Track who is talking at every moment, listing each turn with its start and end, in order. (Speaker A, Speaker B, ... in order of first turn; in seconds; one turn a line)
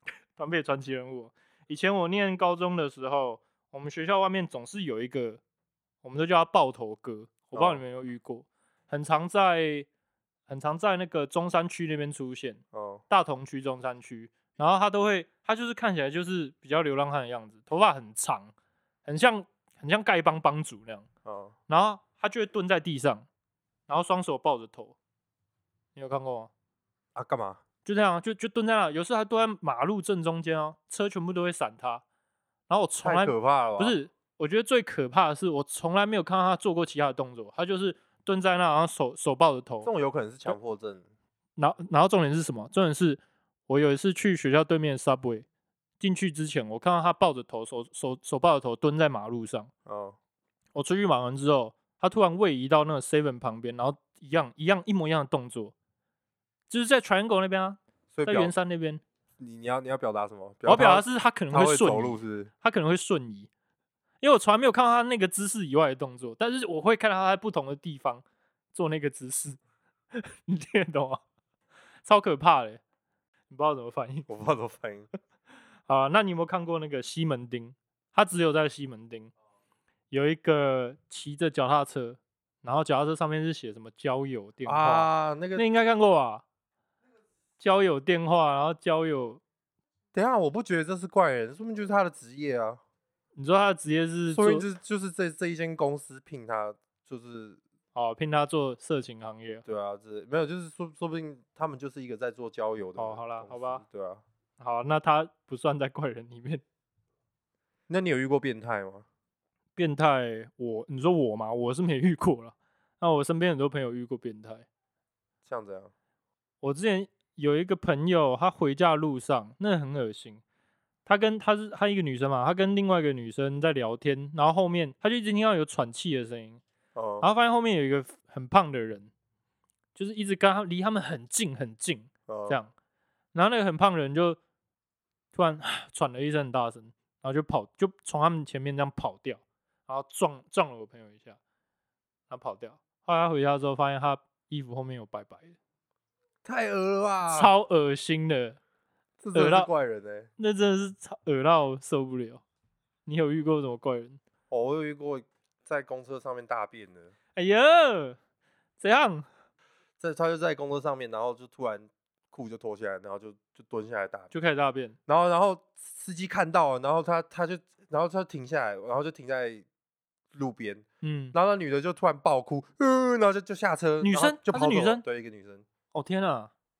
Speaker A: 0.3-5.4
Speaker A: 6.0-9.9
Speaker B: 7.5-7.8
Speaker A: 10.5-18.5
Speaker B: 12.7-13.0
Speaker A: 19.0-21.1
Speaker B: 21.2-21.5
Speaker A: 21.7-23.2
Speaker A: 23.9-24.9
Speaker A: 25.9-26.5
Speaker B: 27.1-27.6
Speaker A: 27.8-32.0
Speaker A: 32.7-39.9
Speaker B: 33.0-34.0
Speaker B: 39.8-41.0
Speaker A: 41.6-45.4
Speaker A: 46.0-49.7
Speaker B: 49.9-50.1
Speaker A: 50.7-55.7
Speaker A: 56.7-59.0
Speaker B: 58.1-58.5
Speaker B: 59.4-62.5
Speaker A: 60.6-63.5
Speaker A: 64.2-69.6
Speaker A: 70.1-71.2
Speaker A: 72.0-72.8
Speaker A: 73.5-74.3
Speaker B: 74.3-75.1
Speaker A: 75.9-79.3
Speaker A: 80.1-86.4
Speaker B: 84.7-85.7
Speaker A: 87.6-89.4
Speaker B: 90.1-92.8
Speaker A: 93.3-94.7
Speaker B: 94.3-97.6
Speaker A: 97.9-99.6
Speaker B: 99.7-104.2
Speaker A: 103.0-103.8
Speaker A: 104.6-106.6
Speaker B: 107.9-109.0
Speaker A: 109.8-114.7
Speaker B: 115.5-115.9
Speaker A: 116.6-120.4
Speaker A: 121.0-126.6
Speaker B: 126.9-127.3
Speaker A: 127.2-129.1
Speaker A: 129.9-132.7
Speaker B: 132.3-132.6
Speaker A: 133.3-134.4
Speaker A: 135.3-141.4
Speaker A: 142.3-145.6
Speaker B: 146.4-147.5
Speaker A: 147.3-148.6
Speaker B: 149.2-150.3
Speaker A: 149.3-149.7
Speaker A: 150.4-152.4
Speaker A: 153.1-154.2
Speaker B: 154.5-157.1
Speaker A: 157.3-158.2
Speaker A: 158.8-159.2
Speaker B: 160.0-164.3
Speaker A: 164.3-164.9
Speaker B: 165.1-169.6
Speaker B: 170.3-175.6
Speaker A: 171.0-171.3
Speaker A: 174.0-175.0
Speaker A: 175.9-176.5